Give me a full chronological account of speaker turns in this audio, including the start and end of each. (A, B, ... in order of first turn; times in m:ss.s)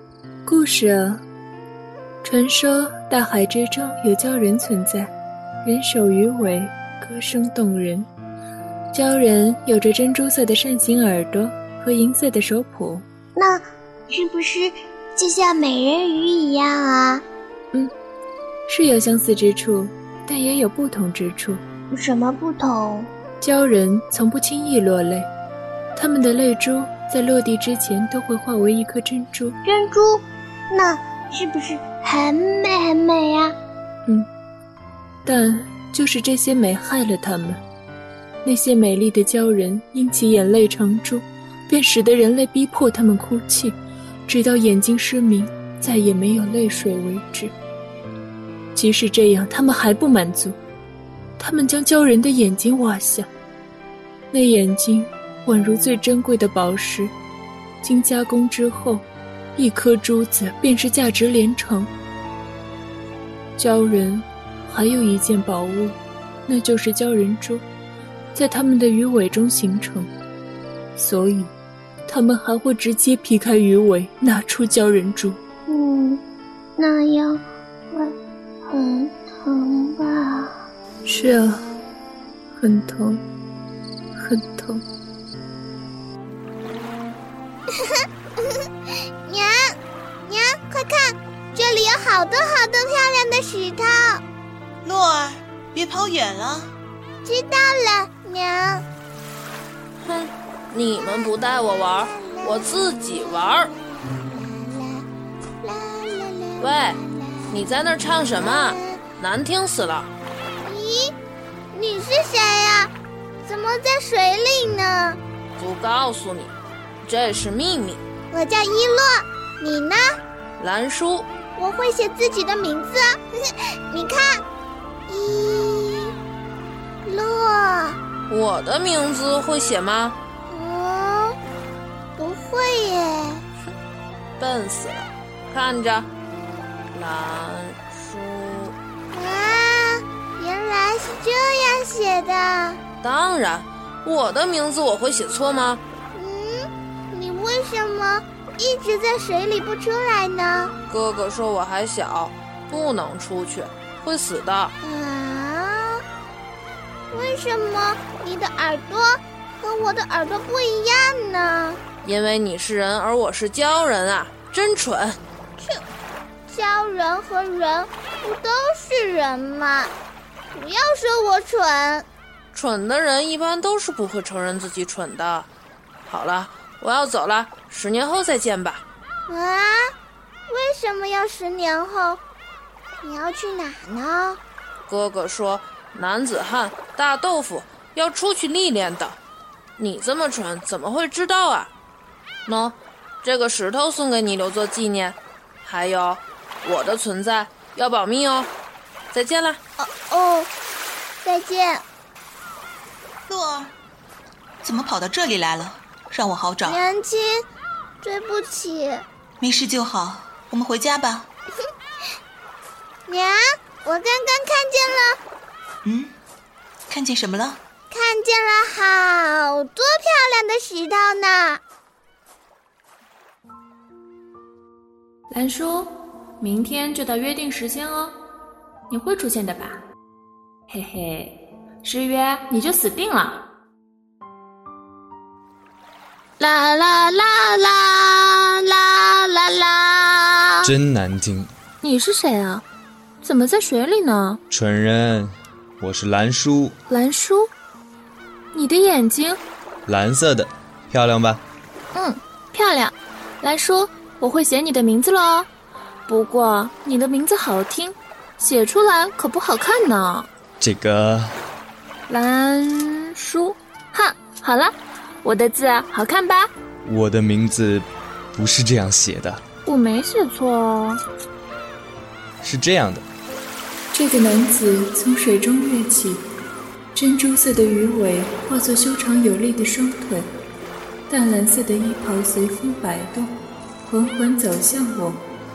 0:00.5-0:01.2 A
0:02.2-0:05.1 A
0:05.6-0:08.1 A
0:08.9-0:13.0 A
0:13.4-0:17.2 B
0:18.7-0:21.6 A
0:21.9-0:23.1 B
0:23.4-0:25.3 A
0:26.0-0:29.6 A
0:29.6-0:33.6 B
0:35.2-0:37.6 A
0:38.4-0:47.5 A
0:48.7-0:50.6 A
0:51.4-0:53.3 A
0:54.3-0:57.1 A
0:57.8-0:59.0 A
0:59.6-1:01.9 A
1:03.6-1:07.6 A
1:08.3-1:10.1 A
1:11.0-1:11.5 A
1:12.1-1:15.4 A
1:15.7-1:16.2 B
1:16.8-1:18.2 B
1:18.7-1:20.6 B
1:21.0-1:21.6 A
1:22.6-1:23.2 A
1:24.2-1:24.8 A
1:29.2-1:34.2 C
1:34.8-1:36.7 D
1:37.2-1:38.8 C
1:40.0-1:43.7 E
1:44.2-1:45.0 C
1:45.6-1:47.4 C
1:46.6-1:47.0 E
1:47.5-1:50.1 E
1:48.4-1:49.0 C
1:50.6-1:51.1 C
1:51.7-1:52.9 C
1:53.4-1:55.2 C
1:55.6-1:56.5 E
1:57.0-1:58.0 E
1:58.3-2:00.0 C
2:00.6-2:01.3 E
2:01.6-2:03.2 C
2:03.9-2:04.4 C
2:05.1-2:06.1 C
2:07.0-2:08.0 C
2:08.3-2:10.2 E
2:10.5-2:11.3 C
2:12.2-2:13.4 C
2:14.4-2:16.1 E
2:16.9-2:18.7 E
2:19.1-2:22.8 C
2:23.0-2:25.8 E
2:26.1-2:30.7 C
2:30.9-2:34.7 E
2:34.8-2:36.0 C
2:37.1-2:41.8 C
2:42.0-2:45.2 E
2:46.5-2:49.9 C
2:50.5-2:52.0 C
2:52.5-2:55.5 E
2:56.1-2:58.8 E
2:59.3-2:59.8 C
3:00.5-3:02.2 C
3:03.0-3:04.4 C
3:04.9-3:09.2 E
3:09.8-3:11.7 E
3:12.4-3:18.5 E
3:19.1-3:19.6 E
3:19.8-3:20.5 C
3:21.2-3:21.8 C
3:23.3-3:23.7 D
3:24.6-3:26.8 D
3:26.6-3:27.4 C
3:28.0-3:29.0 C
3:29.4-3:31.3 D
3:33.1-3:35.2 C
3:35.8-3:36.1 D
3:36.9-3:37.6 D
3:37.9-3:41.6 C
3:45.3-3:48.2 F
3:48.9-3:49.8 F
3:50.7-3:53.4 F
3:56.4-4:00.7 F
4:00.6-4:01.5 G
4:01.8-4:02.6 F
4:03.2-4:04.4 F
4:04.5-4:06.8 G
4:06.9-4:07.5 F
4:08.5-4:09.4 F
4:09.8-4:11.4 G
4:11.9-4:15.5 F
4:16.1-4:20.3 F
4:20.6-4:21.4 G
4:22.1-4:26.5 F
4:26.8-4:29.4 G
4:29.7-4:31.0 F
4:32.4-4:33.1 G
4:33.9-4:36.2 A
4:36.9-4:40.3 A
4:41.1-4:43.3 A
4:43.8-4:45.2 A